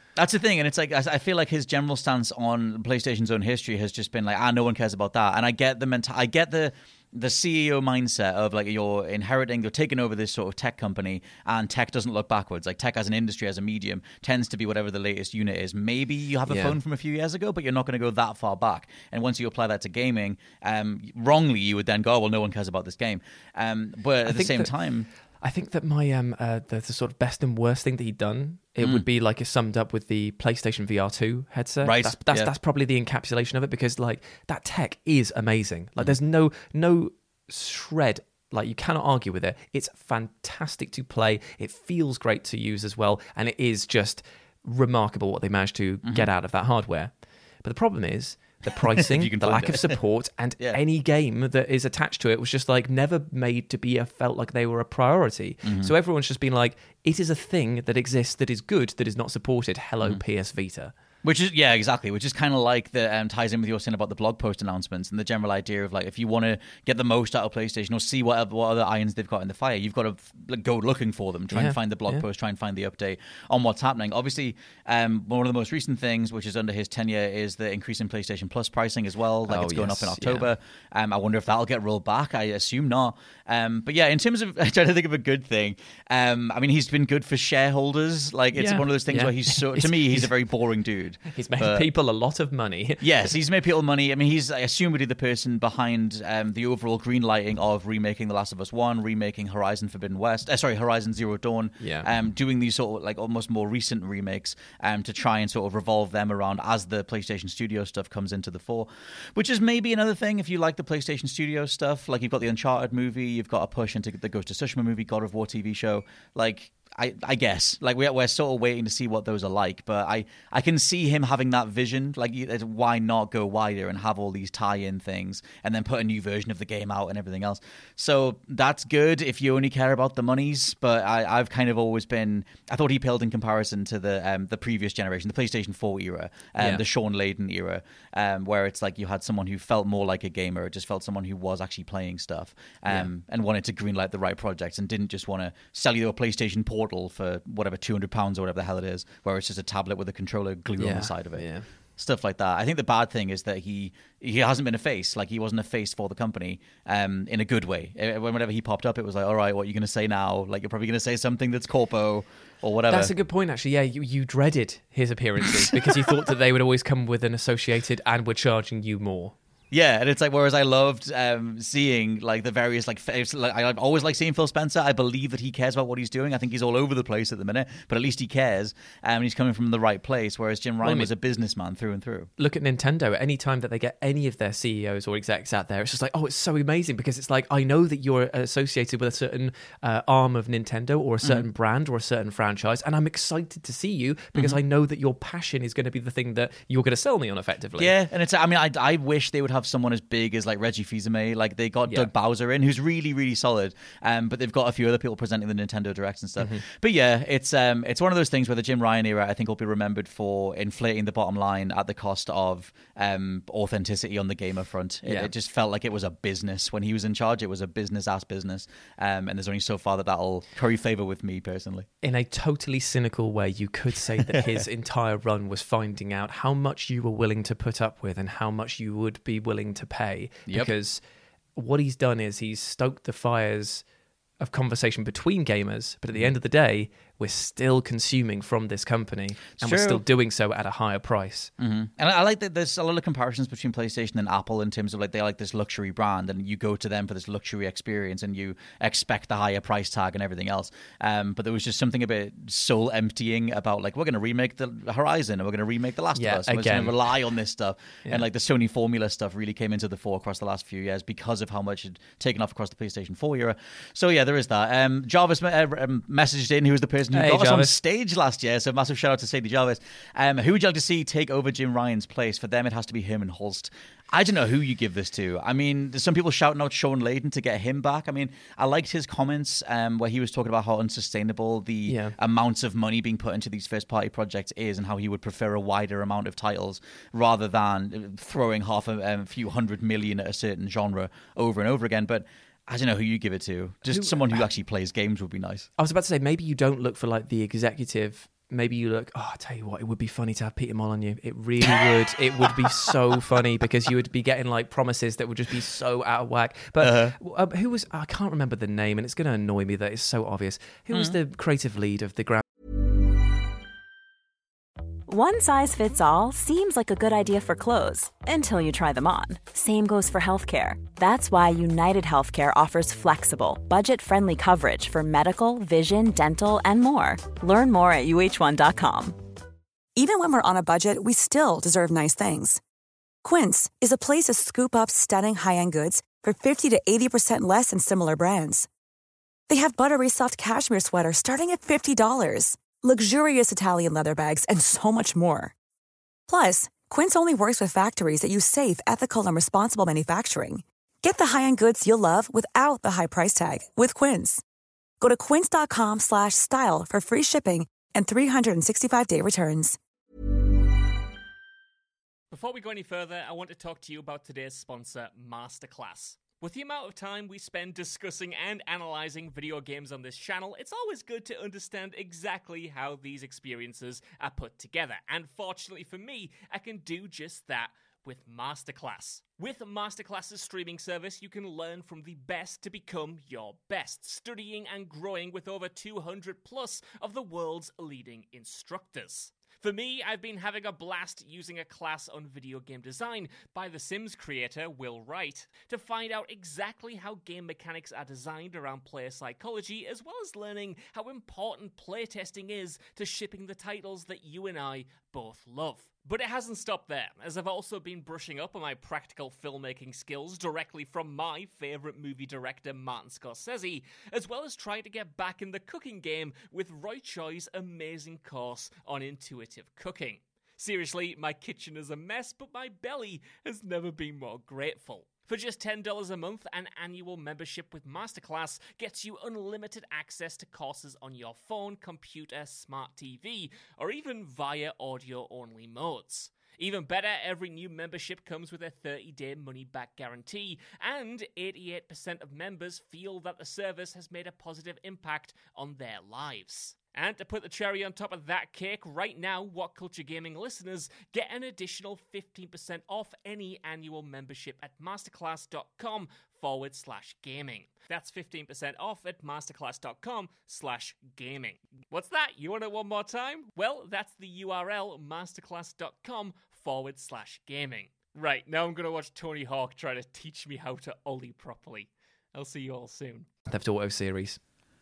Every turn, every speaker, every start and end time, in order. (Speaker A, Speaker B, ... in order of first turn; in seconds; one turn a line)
Speaker A: 0.1-25.1
Speaker B: 16.5-16.8
Speaker B: 24.2-24.7
Speaker B: 25.4-47.1
Speaker A: 31.8-32.5
Speaker B: 47.6-60.9
Speaker A: 49.0-50.0
Speaker A: 55.6-55.9
Speaker A: 61.2-91.9
Speaker B: 71.5-72.2
Speaker B: 79.5-80.5
Speaker B: 88.5-90.3
Speaker B: 91.3-93.1
Speaker A: 93.0-163.1
Speaker B: 101.8-102.1
Speaker B: 136.6-136.8
Speaker B: 150.8-151.7
Speaker B: 162.9-169.3
Speaker A: 165.9-166.1
Speaker A: 169.7-182.3
Speaker B: 180.8-181.1
Speaker B: 182.4-197.9
Speaker A: 197.8-221.9
Speaker B: 215.0-215.3
Speaker B: 222.0-231.0
Speaker A: 224.3-224.6
Speaker B: 231.6-233.8
Speaker B: 234.4-241.5
Speaker A: 239.6-240.0
Speaker A: 241.6-295.7
Speaker B: 256.1-257.0
Speaker B: 267.1-267.7
Speaker B: 281.9-282.1
Speaker B: 293.9-294.4
Speaker B: 295.8-312.4
Speaker A: 306.8-307.1
Speaker C: 315.1-329.2
Speaker D: 329.9-332.6
Speaker D: 333.2-338.7
Speaker D: 339.5-345.5
Speaker D: 346.3-354.4
Speaker D: 355.0-359.8
Speaker E: 362.3-473.3
Speaker B: 473.5-474.4